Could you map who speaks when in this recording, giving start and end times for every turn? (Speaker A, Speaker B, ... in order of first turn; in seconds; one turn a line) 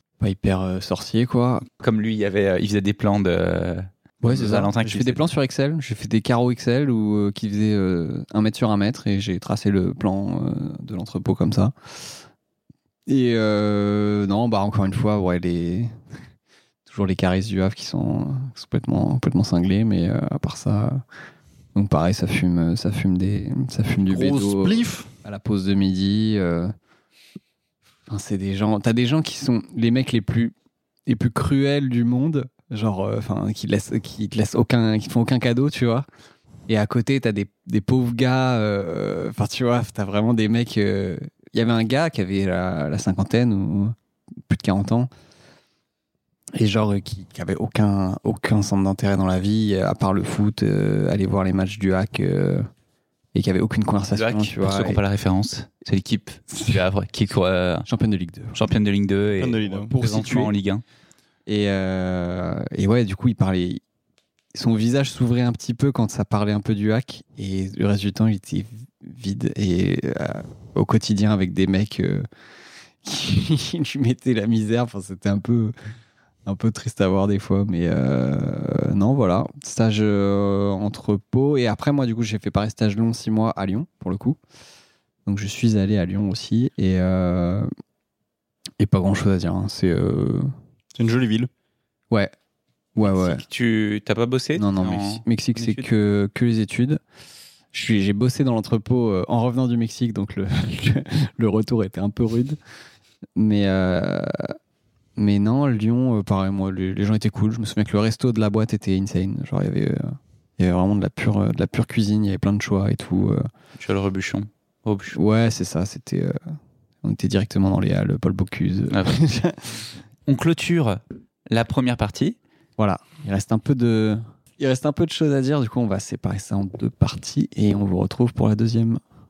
Speaker A: 0.2-1.6
Speaker B: 1.8-5.2
Speaker A: 4.2-11.7
Speaker A: 13.1-16.0
Speaker A: 16.9-21.0
Speaker A: 21.7-26.7
Speaker C: 24.1-25.1
Speaker A: 28.1-30.5
Speaker A: 31.1-36.0
Speaker A: 36.7-43.9
Speaker A: 44.5-45.1
Speaker A: 46.5-52.7
Speaker A: 53.3-55.0
Speaker B: 54.1-57.9
Speaker A: 57.9-58.5
Speaker B: 58.5-60.8
Speaker C: 59.4-59.9
Speaker A: 59.7-60.5
Speaker A: 61.5-63.8
Speaker A: 64.5-72.2
Speaker A: 73.0-75.7
Speaker A: 76.5-84.4
Speaker A: 85.2-87.7
Speaker A: 88.8-90.5
Speaker C: 91.0-91.5
Speaker A: 93.0-93.4
Speaker B: 93.0-95.8
Speaker A: 94.5-97.0
Speaker A: 97.7-102.6
Speaker A: 103.3-104.5
Speaker A: 105.2-113.5
Speaker B: 113.8-115.2
Speaker A: 115.1-116.4
Speaker A: 117.0-119.8
Speaker B: 118.9-119.2
Speaker B: 120.3-122.4
Speaker A: 122.8-129.0